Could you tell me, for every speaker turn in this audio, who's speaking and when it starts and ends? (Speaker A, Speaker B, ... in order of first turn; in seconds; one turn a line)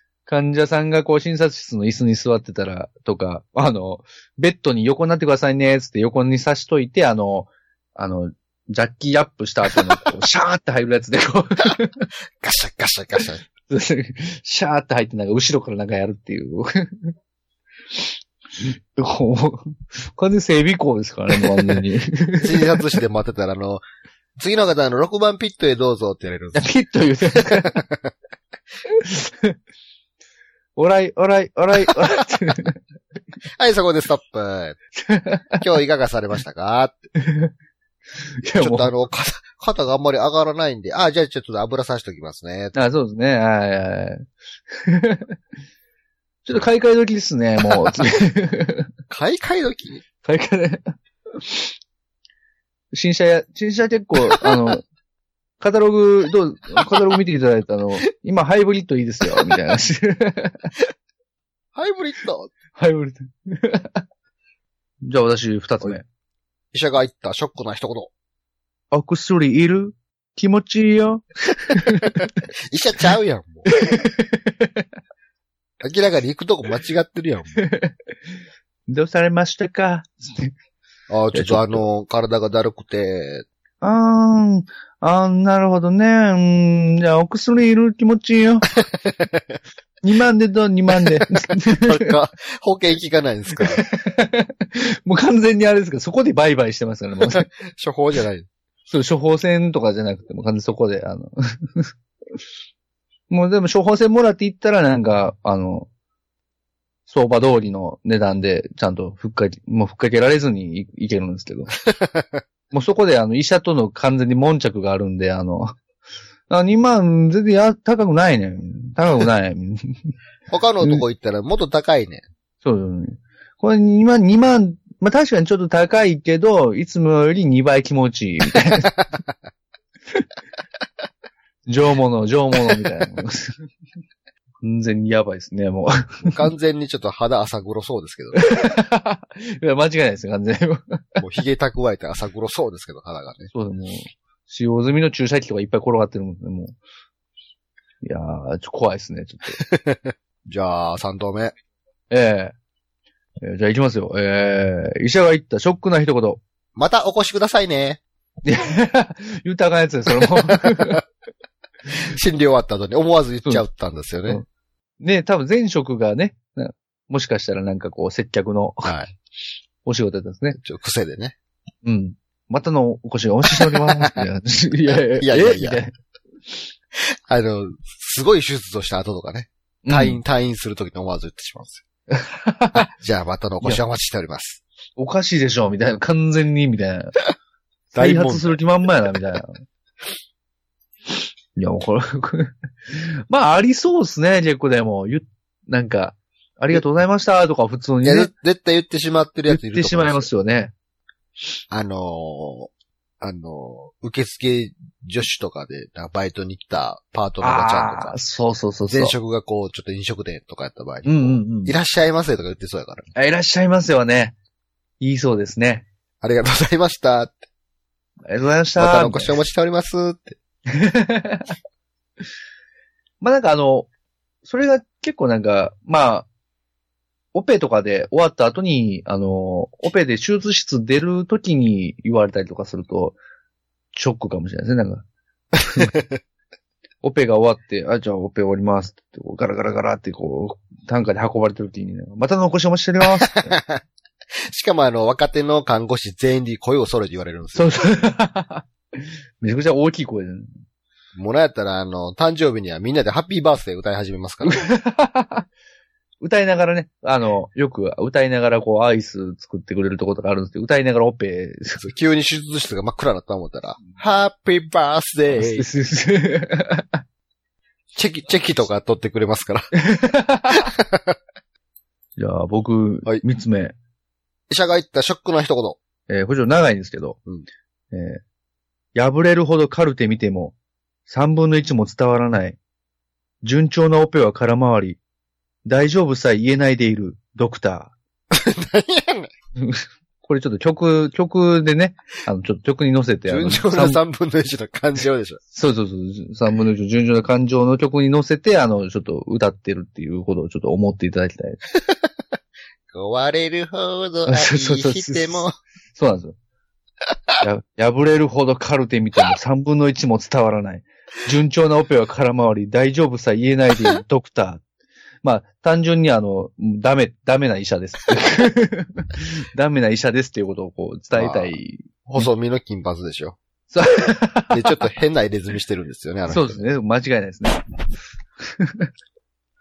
Speaker A: 0.3-12.1
Speaker B: 12.4-13.4
Speaker A: 13.7-17.1
Speaker A: 18.6-22.6
Speaker B: 22.4-23.8
Speaker B: 24.4-26.7
Speaker A: 26.5-27.8
Speaker B: 27.3-28.1
Speaker A: 28.9-29.6
Speaker A: 30.8-32.8
Speaker B: 33.6-34.8
Speaker A: 35.0-35.6
Speaker B: 35.6-37.1
Speaker A: 37.1-37.5
Speaker A: 38.2-38.9
Speaker B: 38.5-42.8
Speaker A: 42.7-45.4
Speaker A: 46.4-48.9
Speaker B: 49.1-50.0
Speaker A: 50.2-51.7
Speaker A: 52.9-54.8
Speaker A: 55.6-60.7
Speaker B: 61.8-62.5
Speaker A: 62.8-64.0
Speaker A: 65.0-66.0
Speaker B: 66.7-68.1
Speaker A: 68.9-72.3
Speaker B: 72.7-73.7
Speaker A: 73.7-74.8
Speaker B: 75.8-77.6
Speaker A: 77.5-77.9
Speaker A: 78.9-80.5
Speaker B: 81.1-83.4
Speaker A: 81.3-81.8
Speaker A: 83.8-88.7
Speaker B: 89.0-89.5
Speaker A: 90.0-92.1
Speaker B: 91.7-93.8
Speaker A: 93.7-97.4
Speaker B: 97.2-98.5
Speaker A: 98.9-101.9
Speaker A: 103.3-105.9
Speaker A: 107.1-111.7
Speaker B: 111.9-112.4
Speaker A: 112.7-115.8
Speaker A: 116.5-120.1
Speaker B: 120.5-122.2
Speaker A: 122.6-128.9
Speaker A: 131.7-133.7
Speaker A: 134.6-136.4
Speaker B: 136.3-138.4
Speaker A: 138.3-141.0
Speaker B: 141.2-143.5
Speaker A: 143.5-146.8
Speaker A: 148.0-149.6
Speaker B: 149.6-151.5
Speaker A: 152.1-152.6
Speaker A: 153.4-156.4
Speaker B: 156.8-158.0
Speaker A: 158.4-161.0
Speaker B: 161.9-164.4
Speaker A: 165.0-168.9
Speaker B: 168.8-169.1
Speaker A: 169.8-170.6
Speaker B: 170.5-171.3
Speaker A: 171.8-175.9
Speaker B: 173.5-174.2
Speaker B: 175.2-175.8
Speaker B: 177.3-181.8
Speaker A: 179.8-180.2
Speaker A: 182.1-182.8
Speaker B: 182.8-184.6
Speaker A: 185.0-187.1
Speaker A: 187.9-189.6
Speaker B: 187.9-188.5
Speaker A: 191.6-198.3
Speaker B: 198.0-200.3
Speaker A: 199.5-200.7
Speaker B: 201.7-202.7
Speaker B: 203.2-208.2
Speaker A: 207.4-209.2
Speaker B: 208.9-213.1
Speaker A: 211.1-211.7
Speaker A: 213.2-214.3
Speaker A: 215.0-215.8
Speaker B: 216.2-217.4
Speaker A: 218.3-219.4
Speaker B: 218.8-220.4
Speaker A: 220.8-221.5
Speaker A: 223.2-223.9
Speaker A: 224.4-226.3
Speaker A: 227.3-233.2
Speaker A: 233.9-235.1
Speaker B: 235.8-236.2
Speaker A: 237.0-243.5
Speaker B: 243.3-243.8
Speaker B: 244.5-247.7
Speaker A: 247.5-248.6
Speaker A: 249.4-250.5
Speaker B: 251.2-254.6
Speaker A: 254.4-255.4
Speaker A: 256.2-261.8
Speaker B: 261.8-265.7
Speaker A: 265.3-267.0
Speaker B: 267.9-269.7
Speaker A: 269.8-270.6
Speaker B: 270.5-271.1
Speaker A: 272.2-273.7
Speaker B: 274.5-275.8
Speaker A: 276.1-277.2
Speaker A: 277.9-278.2
Speaker A: 278.9-280.6
Speaker A: 281.1-282.6
Speaker A: 283.4-285.0
Speaker A: 285.6-287.9
Speaker B: 288.3-289.3
Speaker A: 289.6-294.0
Speaker B: 293.3-295.4
Speaker A: 295.5-301.6
Speaker B: 302.9-305.6
Speaker A: 304.3-306.3
Speaker A: 307.4-314.6
Speaker A: 315.2-322.3
Speaker B: 321.1-323.4
Speaker A: 323.7-324.6
Speaker B: 324.5-326.6
Speaker A: 326.3-327.6
Speaker A: 328.6-328.9